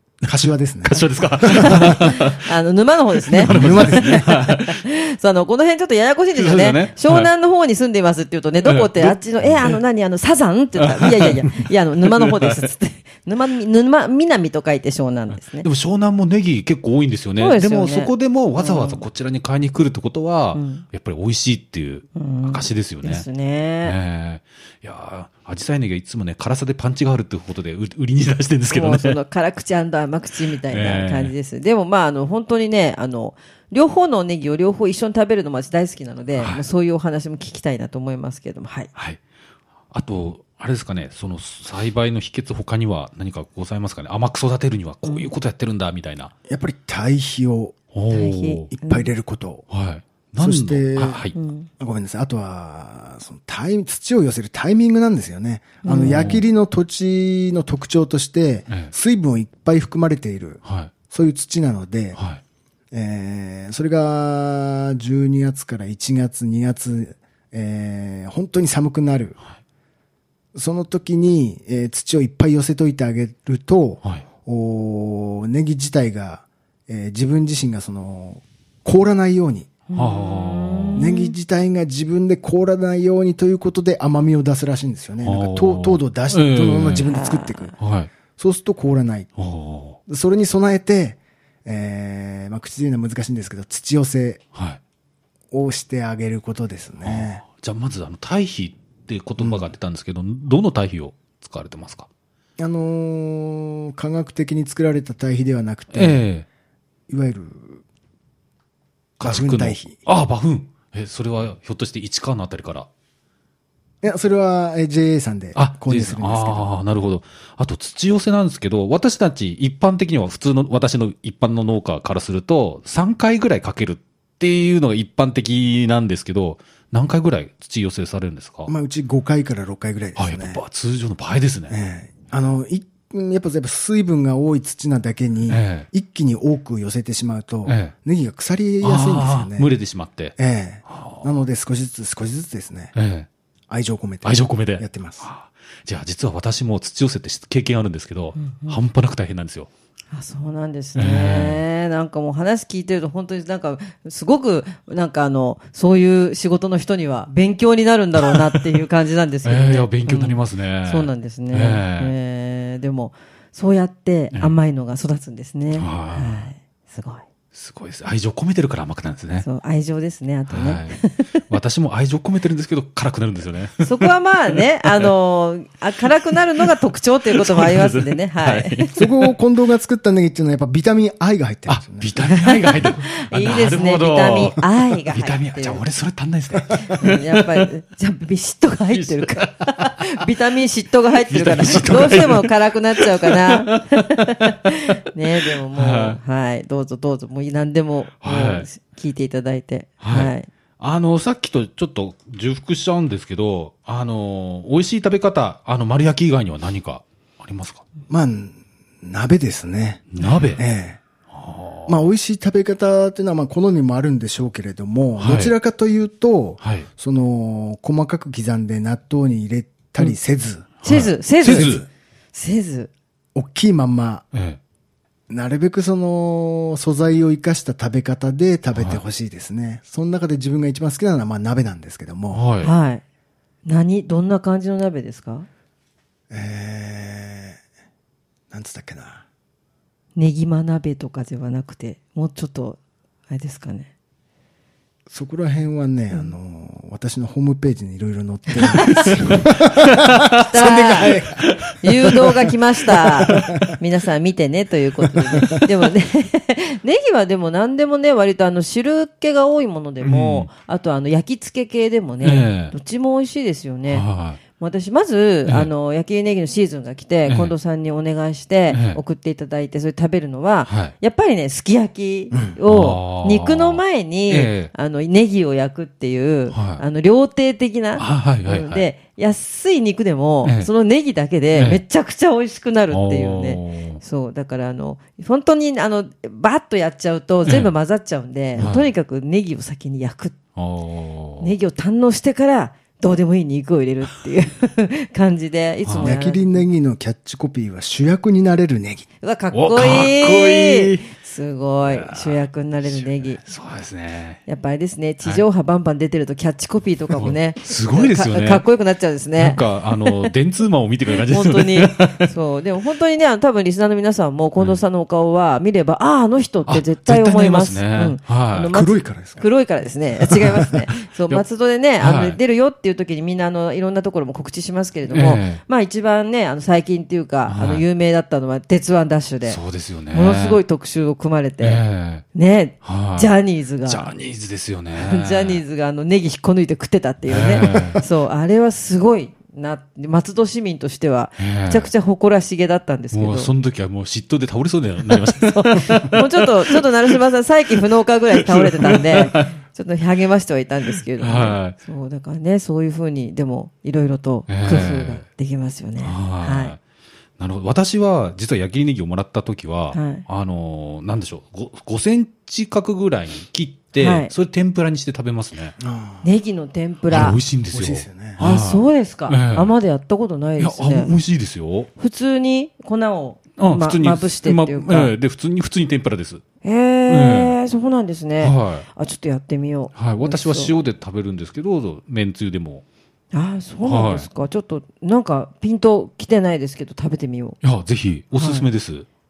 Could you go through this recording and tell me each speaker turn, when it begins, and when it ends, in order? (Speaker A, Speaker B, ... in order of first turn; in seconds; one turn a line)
Speaker A: 0.2-2.5
Speaker B: 0.3-1.9
Speaker C: 1.5-15.7
Speaker A: 3.3-4.8
Speaker B: 3.5-4.3
Speaker A: 6.3-7.3
Speaker A: 8.6-9.8
Speaker A: 10.8-12.7
Speaker A: 15.4-23.3
Speaker C: 17.4-19.0
Speaker C: 20.5-20.8
Speaker C: 22.2-23.9
Speaker A: 23.8-29.2
Speaker C: 28.7-38.9
Speaker A: 30.7-31.3
Speaker A: 36.4-36.6
Speaker A: 39.9-46.3
Speaker B: 46.5-47.8
Speaker A: 47.9-48.7
Speaker C: 48.1-49.1
Speaker B: 48.7-49.6
Speaker A: 49.7-51.4
Speaker B: 50.4-51.2
Speaker C: 51.4-51.7
Speaker B: 51.8-62.2
Speaker C: 55.8-56.2
Speaker A: 55.9-56.5
Speaker A: 60.6-60.9
Speaker A: 62.1-62.4
Speaker B: 62.9-69.4
Speaker B: 70.5-79.7
Speaker C: 79.9-81.3
Speaker A: 79.9-81.0
Speaker B: 81.0-87.8
Speaker A: 85.2-87.1
Speaker C: 87.1-87.8
Speaker A: 87.8-88.1
Speaker B: 88.3-89.3
Speaker A: 89.4-90.0
Speaker B: 90.1-94.4
Speaker A: 94.5-94.8
Speaker B: 95.5-97.4
Speaker A: 97.0-102.1
Speaker B: 99.4-99.7
Speaker B: 102.6-106.2
Speaker A: 105.9-106.5
Speaker B: 107.1-107.8
Speaker A: 109.2-112.9
Speaker B: 109.2-110.0
Speaker B: 114.0-116.6
Speaker A: 115.5-128.7
Speaker B: 128.7-130.6
Speaker A: 130.2-131.8
Speaker B: 131.7-139.7
Speaker A: 135.5-135.9
Speaker A: 137.7-137.9
Speaker A: 138.8-140.4
Speaker B: 140.4-142.9
Speaker A: 140.9-141.3
Speaker A: 142.9-143.3
Speaker B: 143.7-145.3
Speaker A: 144.2-149.7
Speaker C: 148.4-148.8
Speaker C: 150.1-167.2
Speaker A: 151.0-151.6
Speaker A: 158.2-158.6
Speaker A: 159.4-162.1
Speaker A: 165.7-166.5
Speaker A: 167.5-169.5
Speaker C: 169.4-171.4
Speaker A: 170.5-175.1
Speaker C: 173.8-178.9
Speaker A: 176.3-176.6
Speaker A: 177.3-179.1
Speaker B: 179.0-182.1
Speaker A: 181.7-187.7
Speaker C: 182.3-185.8
Speaker C: 186.9-200.5
Speaker A: 188.9-190.2
Speaker A: 191.3-194.5
Speaker A: 195.5-196.2
Speaker A: 198.2-198.7
Speaker A: 200.0-207.8
Speaker B: 208.1-211.0
Speaker A: 210.1-210.6
Speaker A: 211.3-211.9
Speaker B: 211.9-220.8
Speaker A: 215.2-215.5
Speaker A: 216.6-216.9
Speaker A: 220.8-221.8
Speaker C: 220.8-221.8
Speaker B: 221.5-221.8
Speaker C: 222.3-222.9
Speaker B: 223.3-224.2
Speaker A: 224.3-224.6
Speaker B: 225.3-232.4
Speaker A: 228.7-229.0
Speaker A: 232.3-232.7
Speaker C: 232.6-233.0
Speaker C: 233.7-235.5
Speaker B: 236.3-237.6
Speaker B: 238.5-239.2
Speaker C: 240.2-243.9
Speaker B: 245.1-252.2
Speaker A: 248.9-249.2
Speaker C: 249.0-249.4
Speaker A: 250.1-251.7
Speaker C: 250.4-251.2
Speaker C: 251.8-264.1
Speaker B: 253.3-253.6
Speaker B: 255.2-255.7
Speaker A: 260.0-260.5
Speaker A: 262.2-262.7
Speaker A: 263.9-264.4
Speaker C: 264.6-290.4
Speaker A: 265.5-265.7
Speaker A: 267.3-267.5
Speaker A: 268.7-269.0
Speaker A: 270.7-270.9
Speaker A: 272.7-274.7
Speaker A: 276.5-276.8
Speaker A: 278.0-278.9
Speaker A: 280.4-280.7
Speaker A: 281.5-281.8
Speaker A: 282.9-284.0
Speaker A: 287.5-287.7
Speaker A: 288.6-288.9
Speaker A: 290.6-291.5
Speaker C: 291.4-296.6
Speaker A: 295.9-296.1
Speaker B: 296.0-299.1
Speaker C: 299.2-303.4
Speaker A: 299.5-301.1
Speaker A: 301.8-304.4
Speaker C: 304.5-310.3
Speaker A: 307.1-308.6
Speaker A: 309.4-312.3
Speaker C: 311.3-329.6
Speaker A: 316.7-318.7
Speaker B: 318.7-319.5
Speaker A: 320.5-321.4
Speaker A: 322.0-322.4
Speaker A: 325.1-325.6
Speaker A: 327.5-327.8
Speaker A: 329.5-330.6
Speaker C: 330.1-331.8
Speaker A: 331.6-332.2
Speaker C: 332.3-334.1
Speaker A: 332.8-333.3
Speaker A: 333.9-335.6
Speaker C: 335.0-343.5
Speaker A: 337.3-338.0
Speaker A: 341.4-341.9
Speaker A: 343.1-347.1
Speaker C: 345.1-356.8
Speaker A: 348.4-349.5
Speaker A: 351.2-351.8
Speaker A: 354.5-355.2
Speaker A: 356.0-356.8
Speaker A: 357.4-365.8
Speaker C: 359.9-360.2
Speaker C: 364.0-364.3
Speaker B: 365.8-366.2
Speaker C: 366.2-367.4
Speaker A: 367.1-369.7
Speaker B: 367.7-368.4
Speaker C: 368.4-371.1
Speaker A: 370.6-371.9
Speaker C: 372.0-375.1
Speaker A: 373.6-376.4
Speaker C: 376.6-380.7
Speaker A: 377.1-377.5
Speaker A: 378.4-378.9
Speaker A: 379.9-382.8
Speaker C: 383.3-387.6
Speaker A: 383.9-384.3
Speaker A: 387.6-389.1
Speaker C: 388.4-388.7